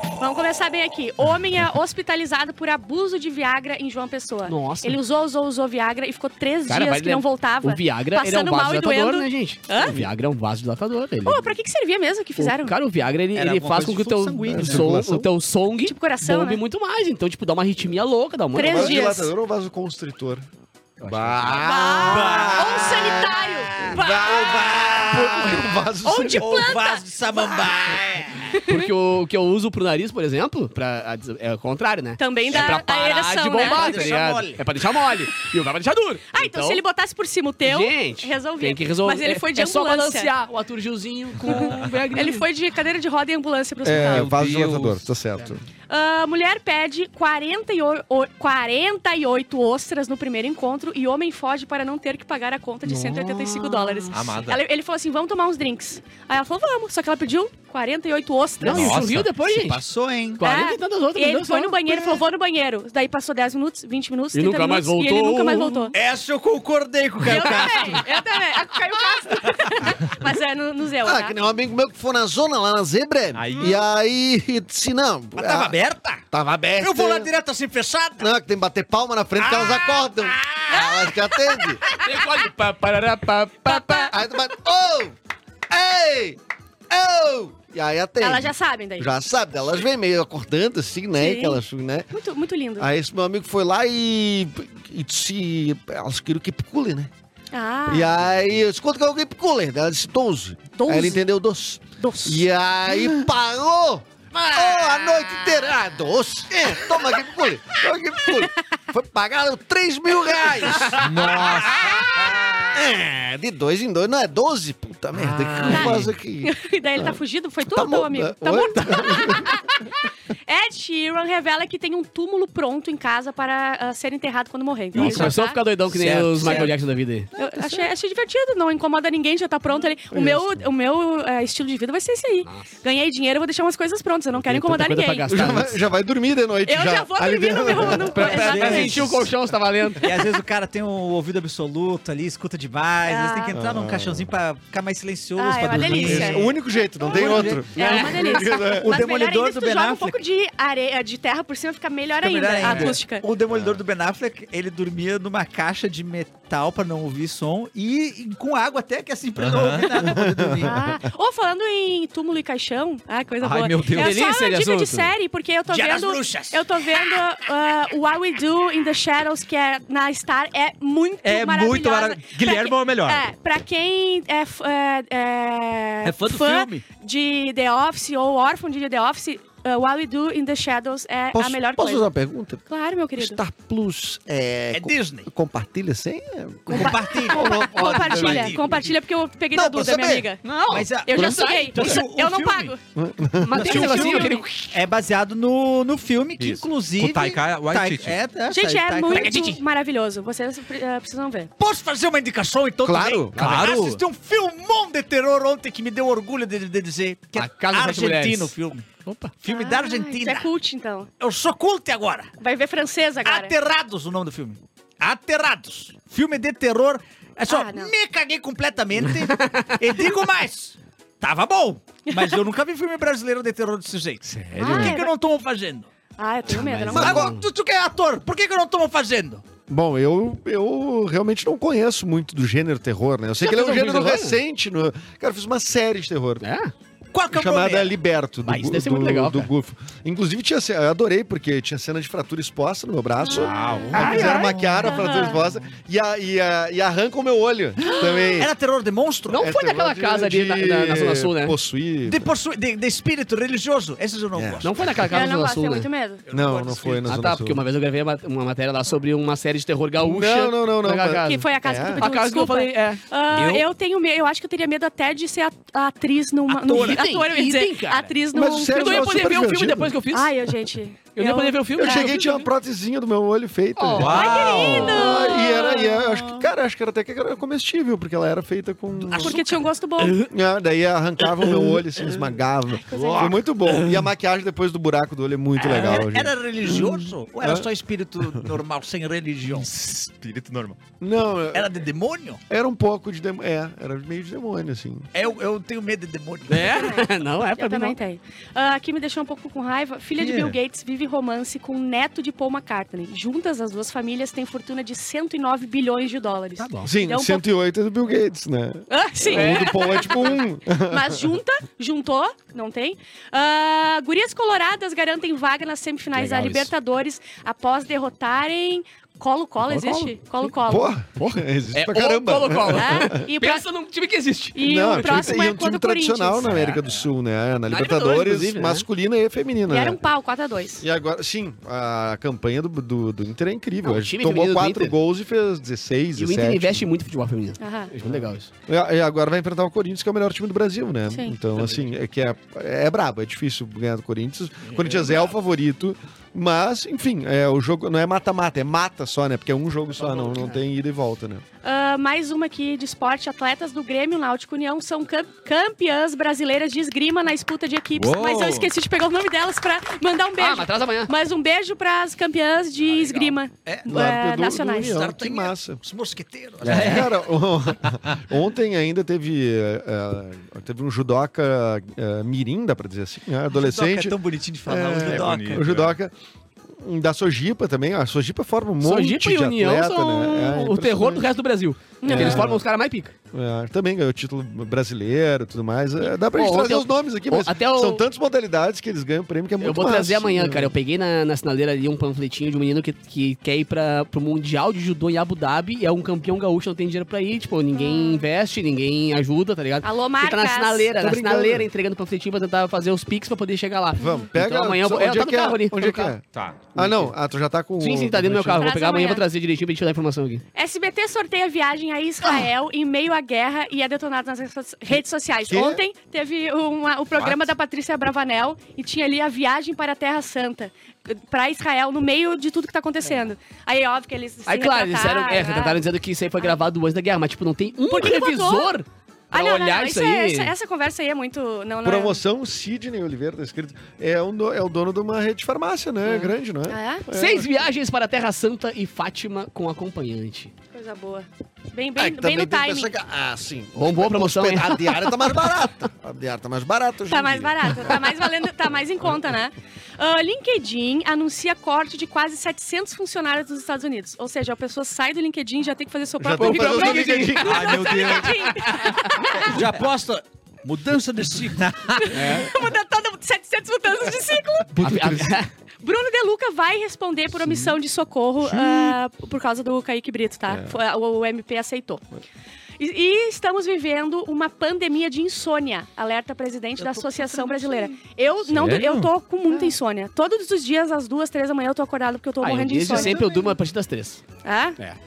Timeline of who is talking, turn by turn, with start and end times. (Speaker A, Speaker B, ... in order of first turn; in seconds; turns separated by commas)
Speaker A: 0.2-10.0, Speaker B: 4.5-5.0, Speaker B: 6.7-11.5, Speaker C: 9.8-10.1, Speaker A: 11.2-12.8, Speaker B: 12.4-19.1, Speaker D: 13.3-14.9, Speaker C: 14.5-15.3, Speaker A: 15.8-16.6, Speaker A: 18.5-19.3, Speaker C: 18.6-20.4, Speaker B: 21.0-21.7, Speaker C: 21.0-26.7, Speaker A: 21.6-24.9, Speaker D: 21.9-25.7, Speaker A: 26.0-27.7, Speaker D: 26.4-28.5, Speaker A: 28.5-28.9, Speaker B: 28.6-36.8, Speaker A: 32.2-34.2, Speaker D: 32.5-32.8, Speaker D: 33.5-34.6, Speaker A: 36.3-40.3, Speaker B: 37.6-42.5, Speaker A: 41.5-44.4, Speaker C: 43.8-45.6, Speaker E: 43.9-45.0, Speaker A: 45.9-59.0, Speaker B: 52.9-54.1, Speaker E: 54.1-54.6, Speaker B: 58.6-59.8, Speaker E: 58.7-59.3, Speaker D: 59.5-60.4, Speaker B: 60.4-62.2, Speaker A: 60.4-65.9, Speaker B: 64.3-65.9, Speaker D: 65.9-68.1, Speaker A: 67.2-71.3, Speaker C: 71.0-75.8, Speaker E: 73.3-73.8, Speaker D: 75.3-76.2, Speaker C: 76.3-77.3, Speaker D: 76.8-78.3, Speaker C: 78.2-81.8, Speaker D: 79.4-81.0, Speaker A: 80.7-81.1, Speaker B: 82.0-84.1, Speaker A: 83.6-84.1, Speaker C: 84.1-85.1, Speaker C: 85.7-86.4, Speaker C: 86.9-92.1, Speaker A: 88.2-89.1, Speaker A: 91.2-91.6, Speaker A: 92.1-92.9, Speaker C: 92.8-97.1, Speaker A: 97.5-98.2, Speaker C: 97.9-111.8, Speaker A: 100.8-101.2, Speaker A: 102.0-102.4, Speaker A: 104.4-105.5, Speaker E: 110.9-112.5, Speaker C: 112.3-119.6, Speaker E: 115.2-116.1, Speaker A: 115.7-119.8, Speaker A: 120.5-125.6, Speaker B: 125.0-127.3, Speaker E: 125.0-125.3, Speaker D: 126.0-126.7, Speaker A: 126.4-126.7, Speaker A: 127.3-135.4, Speaker C: 130.1-130.6, Speaker B: 134.4-135.8, Speaker C: 135.3-138.9, Speaker A: 136.7-139.1, Speaker B: 138.1-140.2, Speaker D: 138.3-139.0, Speaker D: 140.0-146.5, Speaker A: 143.1-143.5, Speaker C: 143.5-144.3, Speaker A: 145.4-153.2, Speaker C: 145.9-148.9, Speaker D: 147.1-150.2, Speaker B: 147.6-148.4, Speaker D: 152.2-160.9, Speaker B: 152.7-152.9, Speaker C: 153.5-153.8, Speaker E: 159.4-160.0, Speaker C: 160.0-160.9, Speaker A: 160.6-182.1, Speaker E: 163.4-164.2, Speaker B: 163.9-165.1, Speaker D: 165.7-167.2, Speaker E: 171.2-173.2, Speaker D: 176.0-176.8, Speaker C: 181.3-182.6, Speaker A: 182.7-183.4, Speaker C: 183.2-188.7, Speaker D: 184.7-185.3, Speaker A: 186.7-190.4, Speaker D: 186.7-188.9, Speaker D: 189.5-192.7, Speaker B: 190.4-192.0, Speaker A: 191.1-192.8, Speaker C: 192.9-193.8, Speaker B: 193.4-194.8, Speaker D: 193.5-199.6, Speaker A: 193.6-194.4, Speaker E: 196.4-198.2, Speaker A: 198.5-201.5, Speaker B: 199.1-199.5, Speaker D: 201.6-208.8, Speaker C: 202.8-203.7, Speaker E: 203.3-204.0, Speaker B: 207.3-208.5, Speaker B: 209.0-209.3, Speaker D: 209.4-210.5, Speaker A: 209.5-211.1, Speaker D: 211.2-212.3, Speaker A: 212.4-213.5, Speaker D: 213.2-225.9, Speaker A: 217.5-217.9, Speaker B: 219.0-219.7, Speaker A: 222.1-222.4, Speaker E: 224.2-224.9, Speaker A: 224.6-225.1, Speaker A: 226.2-227.3, Speaker B: 226.5-227.4, Speaker C: 226.9-227.3, Speaker D: 226.9-229.4, Speaker C: 229.7-236.4, Speaker B: 233.4-234.4, Speaker B: 236.4-236.7, Speaker D: 237.1-238.0, Speaker C: 237.3-248.5, Speaker B: 238.4-239.5, Speaker A: 243.2-245.4, Speaker E: 243.4-244.6, Speaker D: 243.9-244.7, Speaker B: 244.0-244.3, Speaker D: 247.8-249.4, Speaker B: 249.3-251.5, Speaker C: 249.4-252.3, Speaker D: 252.0-255.0, Speaker C: 254.3-254.6, Speaker B: 254.6-255.9, Speaker A: 255.1-256.2, Speaker D: 256.2-257.1, Speaker C: 256.3-257.6, Speaker B: 257.0-263.0, Speaker C: 260.0-262.0, Speaker A: 261.1-269.4, Speaker D: 263.3-263.6, Speaker D: 266.5-267.1, Speaker B: 266.6-268.1, Speaker C: 268.3-269.9, Speaker B: 268.7-270.3, Speaker A: 270.1-272.4, Speaker B: 271.1-272.3, Speaker C: 271.8-279.4, Speaker B: 273.8-274.8, Speaker E: 273.9-275.0, Speaker A: 274.0-276.2, Speaker A: 279.1-280.2, Speaker D: 279.1-279.5, Speaker C: 280.3-287.7, Speaker A: 282.8-283.4, Speaker D: 282.9-283.3, Speaker D: 285.6-289.7, Speaker E: 289.5-290.8, Speaker C: 291.0-291.7, Speaker D: 291.5-292.4, Speaker C: 292.5-295.1, Speaker D: 295.1-296.9, Speaker B: 296.5-298.0, Speaker A: 296.6-307.4, Speaker E: 300.2-300.6, Speaker B: 306.6-306.9, Speaker C: 306.8-311.4, Speaker A: 308.9-321.0, Speaker B: 309.2-310.0, Speaker B: 316.1-316.7, Speaker B: 319.6-320.6, Speaker C: 320.6-323.2, Speaker B: 321.1-325.4, Speaker A: 322.7-323.6, Speaker A: 324.5-326.6, Speaker C: 324.6-330.0, Speaker B: 326.5-326.8, Speaker B: 327.7-328.9, Speaker A: 329.7-330.8, Speaker C: 330.8-336.9, Speaker B: 333.8-334.9, Speaker B: 336.2-338.5, Speaker A: 337.6-337.9, Speaker C: 338.1-351.4, Speaker A: 341.1-341.3, Speaker D: 344.7-345.2, Speaker B: 350.0-350.6, Speaker A: 351.6-365.0, Speaker E: 357.9-358.7, Speaker B: 360.4-361.1, Speaker D: 362.8-363.9, Speaker C: 363.9-365.8, Speaker D: 364.8-367.2, Speaker C: 366.6-376.1, Speaker E: 366.6-367.1, Speaker D: 373.5-375.7, Speaker E: 375.0-375.9, Speaker C: 376.8-381.3, Speaker B: 378.8-383.1, Speaker A: 382.0-382.5, Speaker C: 382.1-382.6, Speaker C: 383.3-390.8, Speaker B: 386.3-388.0, Speaker B: 389.6-406.1, Speaker A: 397.7-398.3, Speaker A: 399.8-400.9, Speaker C: 400.9-401.7, Speaker C: 404.0-406.2, Speaker A: 404.0-404.2, Speaker E: 406.3-406.7, Speaker C: 406.7-408.7, Speaker B: 406.8-407.1, Speaker B: 407.8-410.4, Speaker A: 408.6-409.2, Speaker A: 410.5-425.8, Speaker C: 414.9-415.8, Speaker E: 417.1-417.5, Speaker B: 424.5-430.5, Speaker A: 427.9-428.7, Speaker A: 429.3-432.2, Speaker C: 431.8-437.6, Speaker A: 436.7-437.0, Speaker B: 437.1-440.5, Speaker A: 440.7-442.9, Speaker C: 441.9-448.0, Speaker B: 443.8-445.4, Speaker A: 447.1-459.6, Speaker C: 456.2-458.0, Speaker B: 456.4-458.0, Speaker E: 457.4-458.6, Speaker B: 458.6-459.4, Speaker D: 459.4-462.0, Speaker E: 461.7-462.0, Speaker A: 462.0-464.8, Speaker B: 462.1-462.5, Speaker B: 464.8-465.5, Speaker C: 464.8-465.2, Speaker A: 465.8-472.0, Speaker B: 467.4-467.7, Speaker C: 468.4-468.9, Speaker C: 470.5-470.8, Speaker A: 472.8-483.6, Speaker B: 476.8-477.9, Speaker E: 478.5-479.1, Speaker B: 482.4-484.2, Speaker A: 484.4-484.8